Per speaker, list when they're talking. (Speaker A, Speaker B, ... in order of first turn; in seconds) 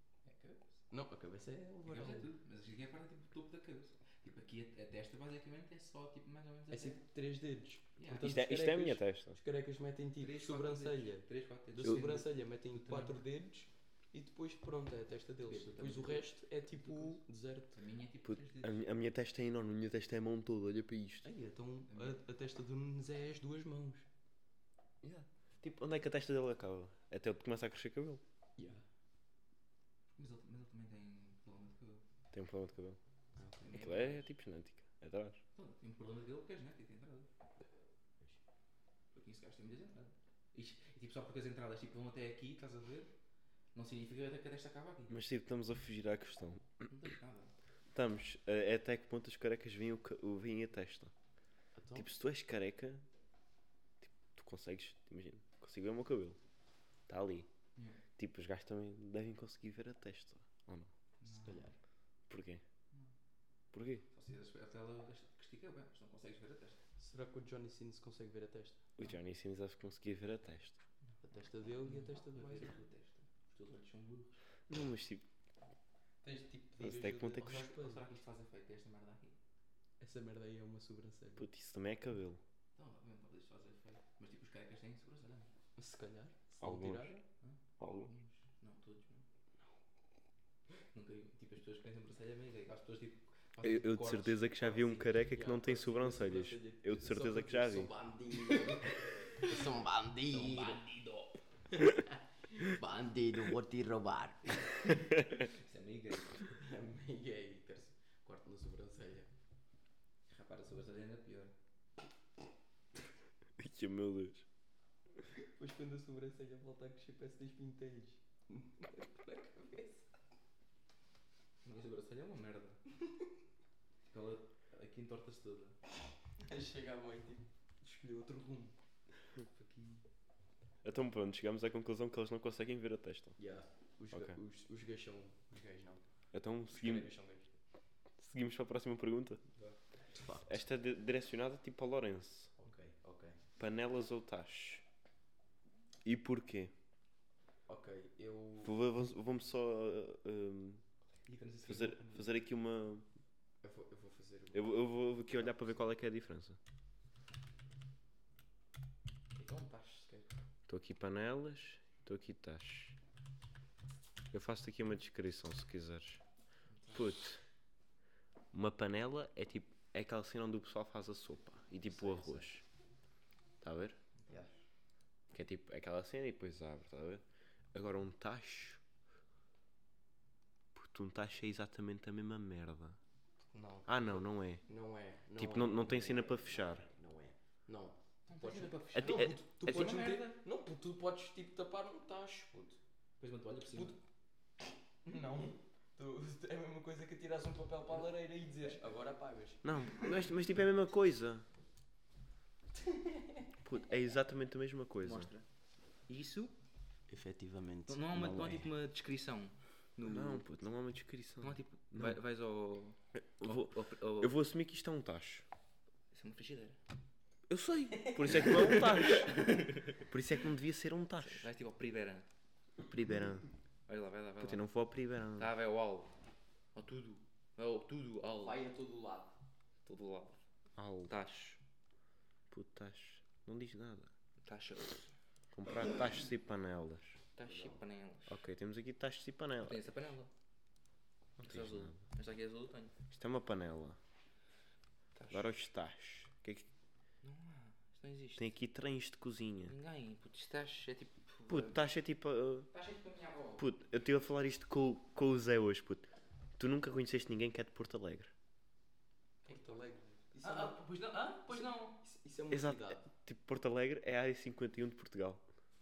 Speaker A: 0.2-0.7, 1.9-7.0, 8.0-8.3, 10.2-13.2, 15.4-16.3, 16.9-17.2, 17.8-18.8, 21.9-22.2, 30.2-32.0, 33.6-34.3, 35.5-37.3, 39.1-43.1, 43.7-45.1, 46.9-47.5, 61.2-61.7, 64.1-66.8, 71.8-74.4, 77.4-79.4, 82.8-85.5, 87.4-89.2, 90.9-95.2, 98.9-99.7, 100.3-101.4, 105.1-106.6, 110.3-111.5, 121.6-122.8, 124.1-125.8, 129.5-130.0, 151.3-152.3, 159.3-160.3, 166.7-167.0, 174.2-174.5, 188.3-190.4, 193.2-194.0, 205.0-205.4, 206.1-206.5, 207.9-210.4, 211.4-214.3, 216.1-216.8, 218.4-220.1, 221.2-222.3, 223.9-224.7, 225.4-226.1, 226.8-228.6, 229.8-230.4, 231.1-231.6, 234.4-235.1, 237.3-238.4, 239.6-240.3, 241.4-242.9, 245.1-245.6, 247.2-248.5, 249.7-251.9, 252.7-253.7, 259.5-262.0
Speaker B: 0.9-2.3, 6.7-17.8, 21.2-24.1, 28.6-28.9, 33.4-33.7, 51.8-52.1, 61.2-61.8, 67.0-68.8, 71.2-72.8, 76.2-78.1, 80.0-81.5, 85.8-87.2, 95.3-100.8, 101.7-104.8, 106.6-109.3, 115.6-120.1, 126.4-128.8, 133.4-136.0, 136.7-137.5, 140.1-140.5, 142.6-143.4, 147.7-148.8, 153.6-155.7, 171.9-172.5, 183.5-184.1, 184.7-192.8, 193.7-194.0, 195.0-200.1, 203.1-203.3, 207.1-208.7, 228.4-229.4, 237.4-237.8, 259.4-260.9, 261.4-263.1
Speaker C: 8.2-9.4, 18.2-21.3, 25.0-28.2, 32.3-33.0, 33.7-35.4, 45.1-46.9, 47.9-51.1, 52.0-53.0, 54.0-56.4, 57.1-57.5, 58.2-60.9, 62.3-62.6, 63.7-64.0, 69.0-70.8, 74.7-75.3, 76.8-77.7, 81.4-82.4, 86.6-87.2, 87.8-88.1, 93.6-97.9, 105.1-105.4, 113.6-114.5, 130.8-133.4, 134.1-134.4, 136.3-137.1, 138.2-139.4, 140.4-142.5, 143.6-144.8, 146.0-146.7, 148.6-150.8, 151.6-153.1, 154.5-156.6, 160.7-163.0, 164.3-166.2, 166.9-167.4, 168.5-172.6, 173.6-174.0, 175.3-177.2, 177.7-178.8, 180.7-183.0, 183.9-184.6, 185.4-186.9, 188.9-189.4, 199.6-201.5, 203.6-205.3, 210.0-212.2, 213.4-215.5, 217.5-221.5, 222.8-223.5, 224.4-225.5, 230.8-231.1, 232.5-234.1, 235.5-237.2, 238.3-239.8, 241.4-242.0, 243.1-244.0, 245.3-246.7, 248.4-249.8, 251.5-252.7, 253.6-258.3, 262.5-265.4